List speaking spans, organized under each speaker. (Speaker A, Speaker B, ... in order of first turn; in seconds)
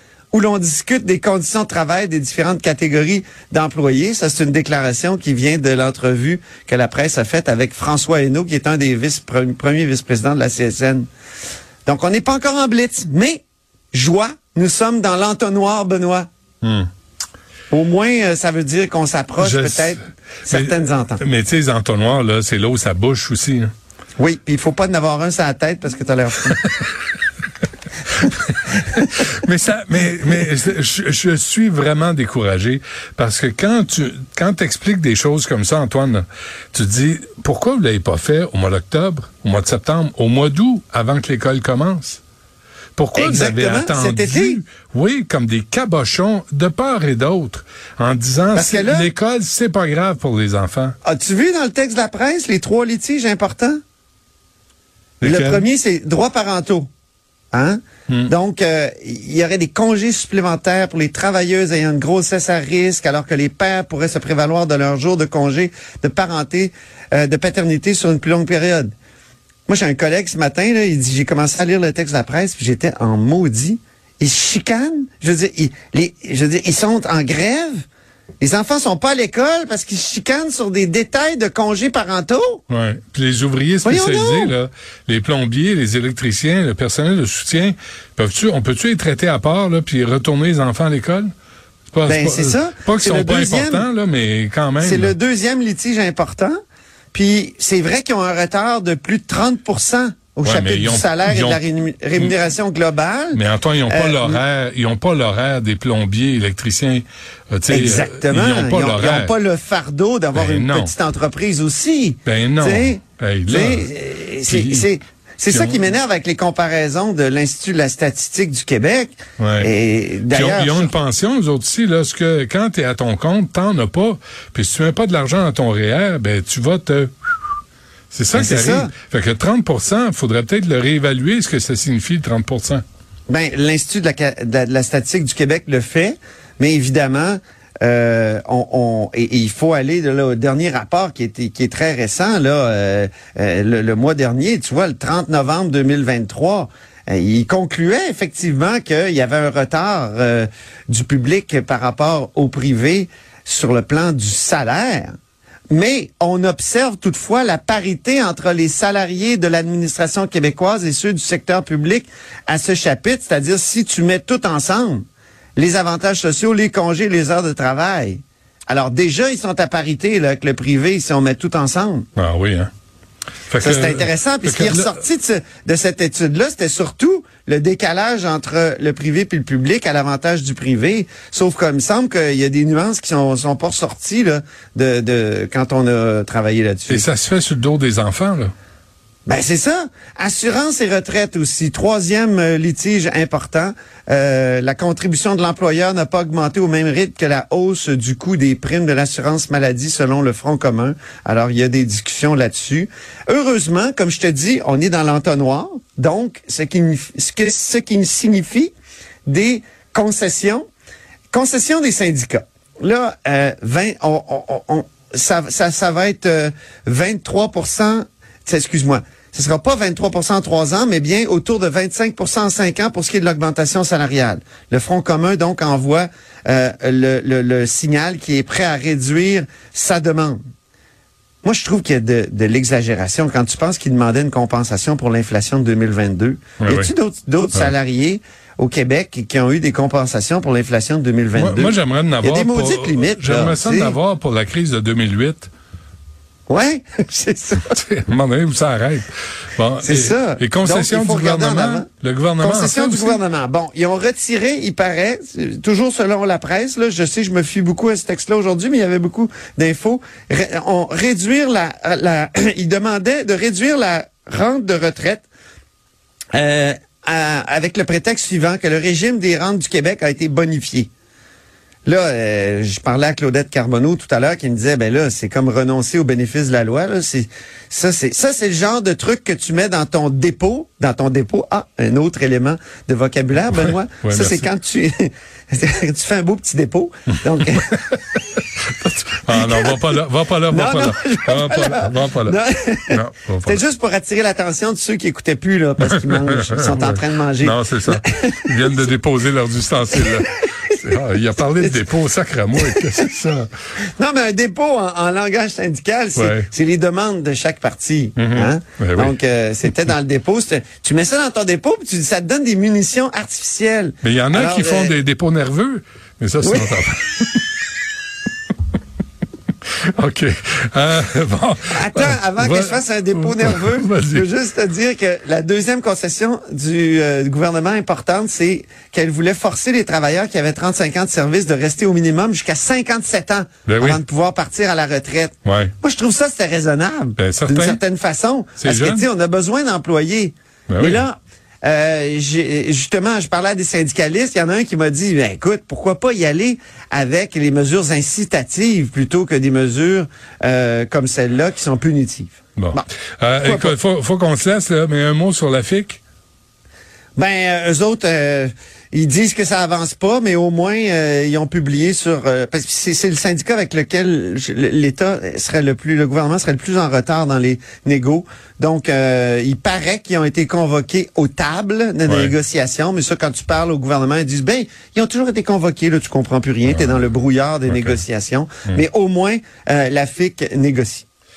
Speaker A: 0.3-11.1, 11.8-13.4, 13.9-16.3, 17.7-21.2, 24.2-26.6, 43.2-44.6, 48.5-49.1, 51.0-53.8, 55.2-56.9, 57.5-68.9, 69.7-77.8, 78.4-82.6, 83.8-84.5, 92.0-93.9, 94.8-96.5, 97.1-104.4, 107.7-120.9, 128.3-128.9, 133.3-155.1, 155.7-165.0, 165.6-172.1, 173.6-187.1, 189.2-208.7, 209.3-210.6, 211.3-230.4, 231.4-243.9, 246.5-247.7, 249.8-251.9, 252.4-265.2, 266.3-270.9, 271.9-288.0, 289.3-289.9, 290.5-298.7, 300.0-300.8, 302.6-303.1, 303.8-315.0, 316.4-316.8, 321.7-352.9, 353.4-353.8, 357.1-381.0
Speaker B: 16.6-16.9, 19.4-23.7, 26.5-26.9, 28.1-42.2, 43.0-50.9, 55.2-55.6, 82.7-91.3, 91.9-95.2, 100.4-101.6, 103.3-109.3, 110.3-110.9, 112.2-113.9, 114.4-114.9, 115.5-115.8, 119.4-119.7, 120.3-127.3, 128.1-132.8, 172.2-172.7, 173.5-175.0, 186.9-188.5, 236.6-236.9, 241.3-245.5, 247.6-253.2, 283.6-284.5, 287.3-292.4, 292.9-293.6, 295.8-303.5, 306.1-306.5, 308.2-309.2, 314.0-317.6, 319.6-324.3, 333.6-334.0, 335.4-335.7, 337.2-337.8, 338.6-339.1, 340.7-341.0, 352.6-356.0, 372.1-372.3, 376.6-377.1, 377.7-378.0